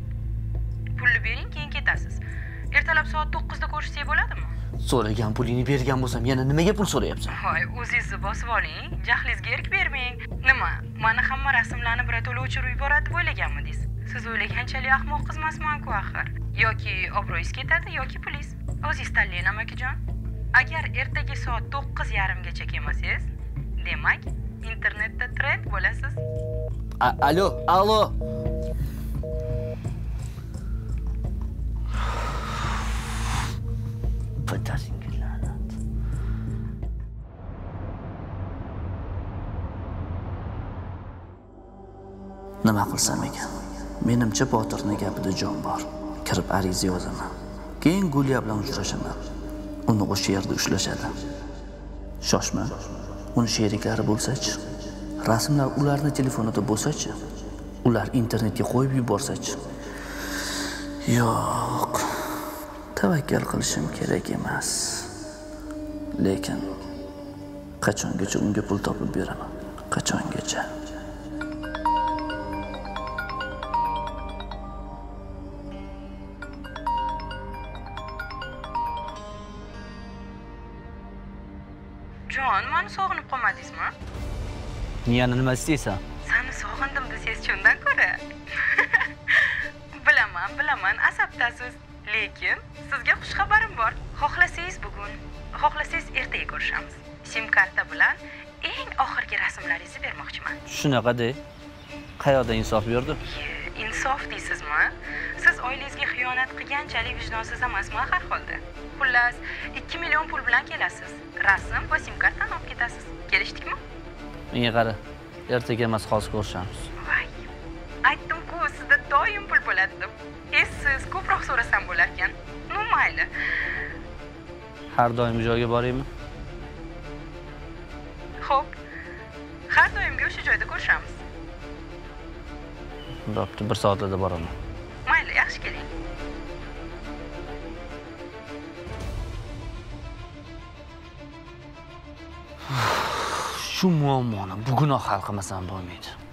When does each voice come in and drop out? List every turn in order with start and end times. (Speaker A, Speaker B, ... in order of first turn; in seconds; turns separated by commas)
Speaker A: 1.0-4.5, Speaker B: 4.8-7.4, Speaker A: 7.3-20.0, Speaker A: 20.5-26.2, Speaker B: 27.0-28.2, Speaker B: 34.4-35.6, Speaker B: 42.6-49.3, Speaker B: 49.9-51.1, Speaker B: 52.2-54.7, Speaker B: 55.2-57.2, Speaker B: 57.8-59.6, Speaker B: 60.4-65.3, Speaker B: 66.2-66.8, Speaker B: 67.8-70.7, Speaker A: 82.3-83.9, Speaker B: 85.0-86.0, Speaker A: 86.3-100.6, Speaker B: 100.7-101.4, Speaker B: 102.2-103.2, Speaker A: 103.3-113.8, Speaker B: 114.5-116.9, Speaker A: 117.0-117.4, Speaker A: 118.0-123.3, Speaker B: 124.9-126.1, Speaker A: 128.4-128.7, Speaker A: 129.7-131.2, Speaker B: 133.3-134.6, Speaker A: 135.1-135.9, Speaker B: 142.7-146.2